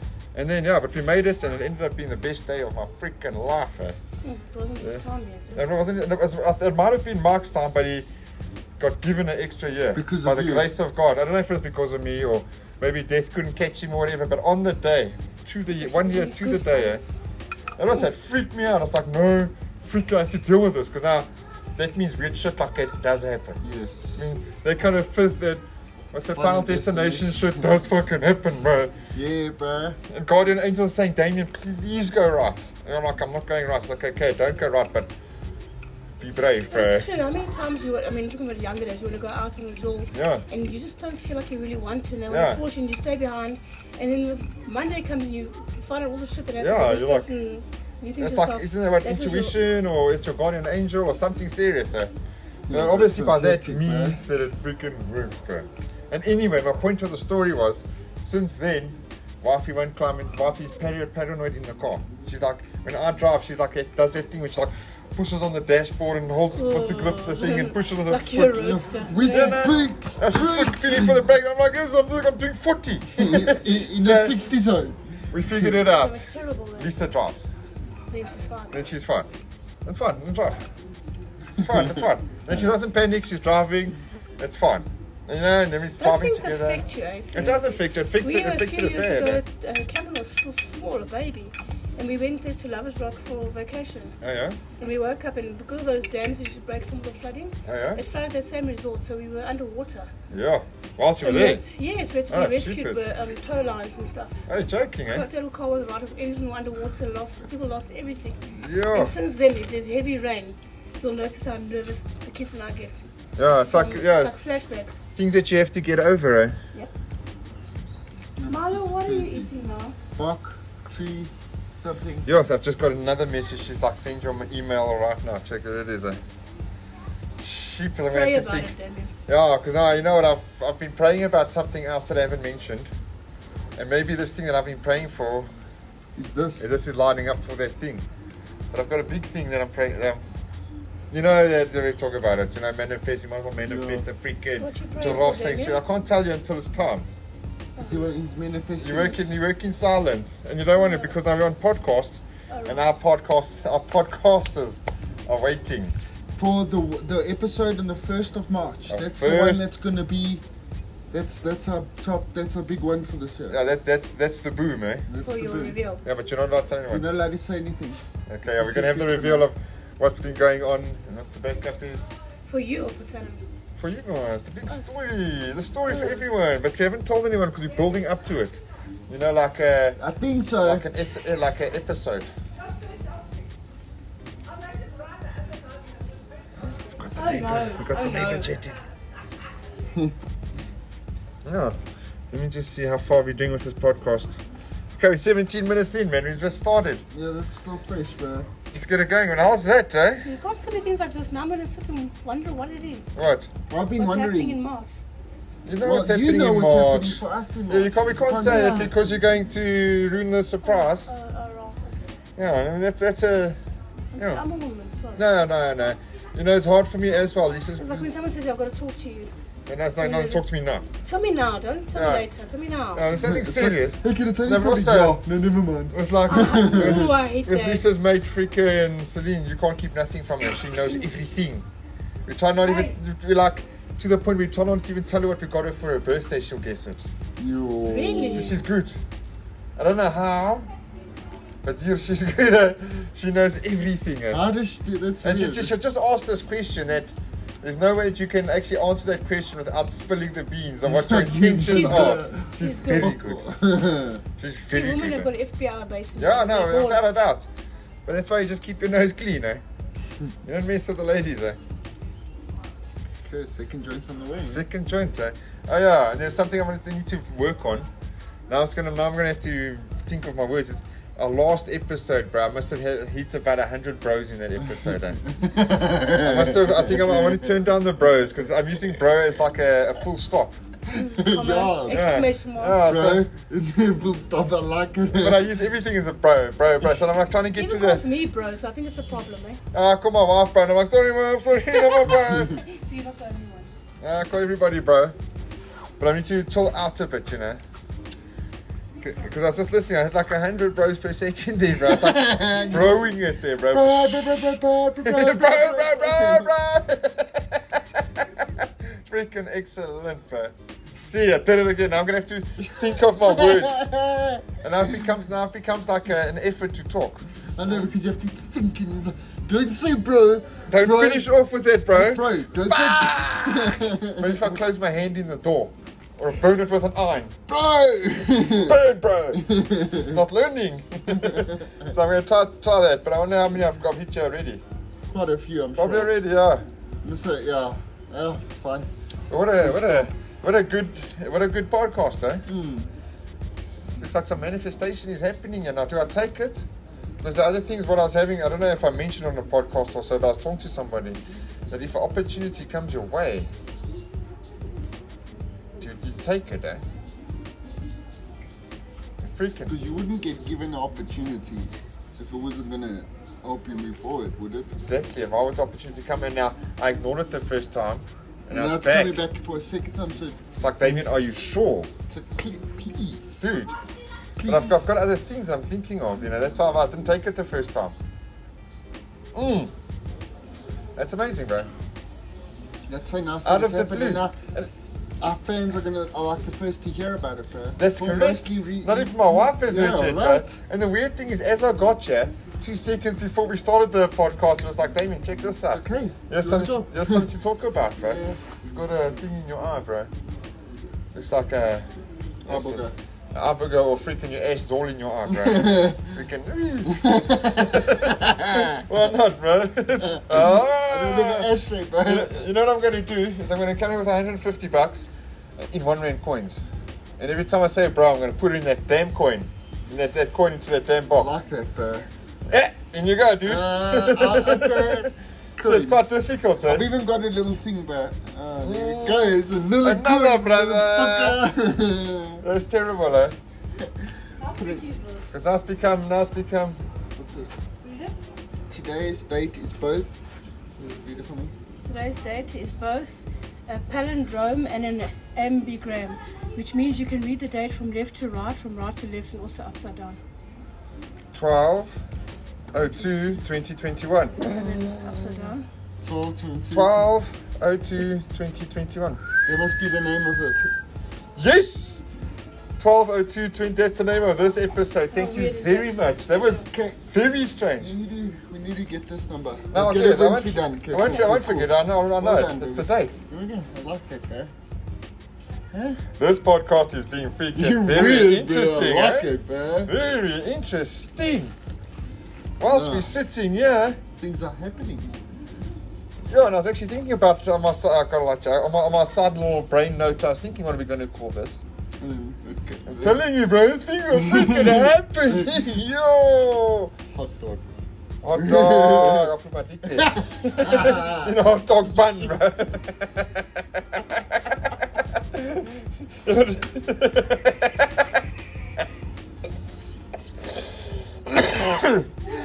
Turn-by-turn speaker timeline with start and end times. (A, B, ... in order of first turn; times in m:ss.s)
0:00.3-0:04.0 A
0:04.2-0:05.6 B
0:05.5-0:08.0 A
0:08.8-0:17.0 A
0:09.9-0:10.7 C
0:15.8-0:17.1 B
0:17.8-0:23.6 A
0:23.6-0:24.3 C
0:24.2-0:28.9 A
0:26.3-0:27.8 C
0:29.1-0:30.0 C
0:30.1-0:35.1 A
0:36.2-0:37.1 A
0:36.7-0:49.6 B
0:40.1-0:40.4 A
0:42.3-0:42.6 A
0:46.6-0:47.3 A
0:48.2-0:52.1 A
0:52.7-0:54.2 C
0:52.7-1:14.4 A
1:06.5-1:09.7 B
1:08.6-1:11.2 C
1:13.1-1:15.8 C
1:15.3-1:17.4 A
1:15.8-1:16.9 B
1:18.1-1:18.8 B
1:18.7-1:19.3 A
1:19.8-1:20.6 A
1:21.6-1:21.8 C
1:21.6-1:29.4 A
1:26.0-1:34.1 B
1:34.2-1:34.6 A
1:34.8-1:40.1 B
1:37.6-1:38.0 A
1:40.3-1:41.6 A
1:41.2-1:44.4 B
1:42.3-1:43.0 A
1:44.5-1:45.2 A
1:45.0-1:53.0 B
1:48.6-1:49.1 A
1:53.4-1:54.4 A
1:53.7-1:55.0 B
1:55.1-1:56.6 A
1:58.4-1:59.5 C
1:58.4-2:00.0 B
2:00.2-2:02.3 C
2:02.2-2:06.2 A
2:07.4-2:08.7 A
2:08.1-2:09.1 B
2:09.3-2:12.9 A
2:13.8-2:15.5 A
2:16.2-2:16.6 C
2:16.6-2:18.0 A
2:18.7-2:20.2 A
2:21.1-2:27.0 A
2:23.7-2:24.0 C
2:24.6-2:25.8 B
2:27.8-2:29.2 C
2:28.8-2:35.9 A
2:30.8-2:31.1 B
2:32.5-2:33.0 B
2:36.4-2:40.4 C
2:38.9-2:39.6 A
2:41.1-2:43.6 C
2:43.5-2:45.0 A
2:45.1-2:45.8 C
2:45.2-2:46.0 B
2:46.0-2:47.1 A
2:46.9-2:49.5 C
2:48.3-2:52.0 A
2:52.5-2:53.5 B
2:53.8-3:00.0 A
2:55.9-2:56.2 B
3:00.0-3:00.8 C
3:00.6-3:02.3 A
3:06.8-3:08.8 A
3:07.2-3:08.5 B
3:11.4-3:11.8 A
3:12.3-3:14.4 A
3:15.0-3:17.0 A
3:17.1-3:18.5 C
3:18.7-3:20.3 A
3:20.2-3:23.1 B
3:23.1-3:23.5 A
3:23.7-3:24.6 C
3:24.0-3:25.0 B
3:25.6-3:31.1 A
3:25.8-3:29.2 C
3:28.4-3:28.9 B
3:30.6-3:32.0 B
3:32.4-3:33.6 A
3:34.1-3:35.2 B
3:34.2-3:34.4 A
3:35.2-3:38.1 A
3:37.8-3:39.3 B
3:39.7-3:40.8 A
3:40.0-3:40.4 B
3:41.0-3:43.0 B
3:41.9-3:42.3 A
3:42.9-3:45.2 A
3:43.1-3:47.1 C
3:45.9-3:51.6 A
3:46.2-3:48.0 B
3:52.2-3:57.0 A
3:52.6-3:52.9 B
3:57.4-3:58.6 C
3:57.9-3:58.5 B
3:58.3-3:59.0 A
3:59.8-4:00.7 A
4:01.6-4:04.4 A
4:04.3-4:05.7 C
4:05.2-4:13.5 A
4:10.8-4:14.2 C
4:11.6-4:13.1 B
4:14.4-4:15.3 A
4:14.7-4:17.0 B
4:16.2-4:17.5 A
4:18.0-4:19.6 A
4:20.4-4:21.6 A
4:23.2-4:24.6 C
4:24.4-4:27.9 A
4:28.5-4:35.2 A
4:35.2-4:37.6 C
4:36.2-4:40.6 A
4:40.9-4:42.1 C
4:40.9-4:42.8 B
4:41.9-4:43.2 A
4:42.8-4:45.5 C
4:45.1-4:48.0 A
4:47.5-4:49.6 B
4:49.7-4:52.6 A
4:51.7-4:53.7 B
4:54.0-4:55.1 A
4:56.0-4:57.6 A
4:59.0-5:04.5 A
5:01.8-5:03.1 C
5:03.7-5:06.5 C
5:05.0-5:14.0 A
5:13.2-5:14.4 C
5:14.6-5:17.2 A
5:17.5-5:21.3 C
5:20.7-5:27.4 A
5:21.9-5:24.6 C
5:27.5-5:28.8 C
5:28.5-5:34.6 A
5:29.3-5:30.2 C
5:31.2-5:31.5 C
5:35.1-5:36.1 C
5:35.8-5:36.6 A
5:37.0-5:38.9 C
5:39.3-5:42.4 A
5:39.6-5:40.1 C
5:42.4-5:42.9 C
5:44.0-5:46.7 A
5:47.2-5:51.2 A
5:51.7-5:53.5 A
5:55.8-5:56.8 A
5:59.2-5:59.7 A
5:59.7-6:04.7 C
6:04.8-6:09.2 A
6:08.5-6:11.0 C
6:10.6-6:11.9 A
6:12.1-6:13.4 C
6:13.4-6:13.7 A
6:14.4-6:14.8 C
6:14.4-6:17.9 A
6:19.3-6:19.7 A
6:21.0-6:21.7 A
6:22.9-6:24.4 C
6:23.4-6:24.7 A
6:25.2-6:30.6 C
6:27.8-6:40.1 A
6:35.7-6:37.2 C
6:38.0-6:38.8 C
6:41.1-6:41.9 A
6:42.4-6:51.5 A
6:42.5-6:42.9 C
6:45.3-6:46.1 C
6:46.9-6:48.8 C
6:50.0-6:52.4 C
6:52.0-6:55.1 A
6:55.6-6:56.6 A
6:57.2-7:01.4 A
7:01.1-7:02.1 C
7:02.5-7:06.8 A
7:03.4-7:06.0 C
7:06.6-7:12.4 C
7:08.6-7:11.4 A
7:12.4-7:13.4 A
7:13.8-7:14.0 C
7:14.4-7:15.3 B
7:14.6-7:14.8 C
7:15.3-7:16.8 A
7:17.2-7:17.6 C
7:17.8-7:18.2 B
7:18.7-7:20.1 C
7:20.8-7:21.5 C
7:21.8-7:30.2 B
7:31.3-7:32.0 A
7:32.7-7:35.5 A
7:34.4-7:35.6 B
7:36.0-7:37.1 C
7:36.7-7:39.2 A
7:39.4-7:40.7 C
7:41.4-7:42.0 A
7:42.8-7:47.9 A
7:45.1-7:46.6 B
7:46.6-7:47.0 C
7:47.8-7:54.5 C
7:49.7-7:53.2 A
7:55.7-7:56.0 C
7:56.2-7:59.3 A
7:57.5-7:59.9 C
7:59.9-8:01.5 A
8:02.6-8:04.0 A
8:02.7-8:03.1 C
8:04.2-8:05.2 C
8:06.3-8:11.6 A
8:12.0-8:13.2 C
8:12.9-8:16.9 A
8:14.1-8:15.7 C
8:17.1-8:17.6 C
8:18.2-8:24.7 A
8:18.3-8:19.3 C
8:19.9-8:21.4 C
8:25.3-8:28.1 A
8:31.3-8:32.1 A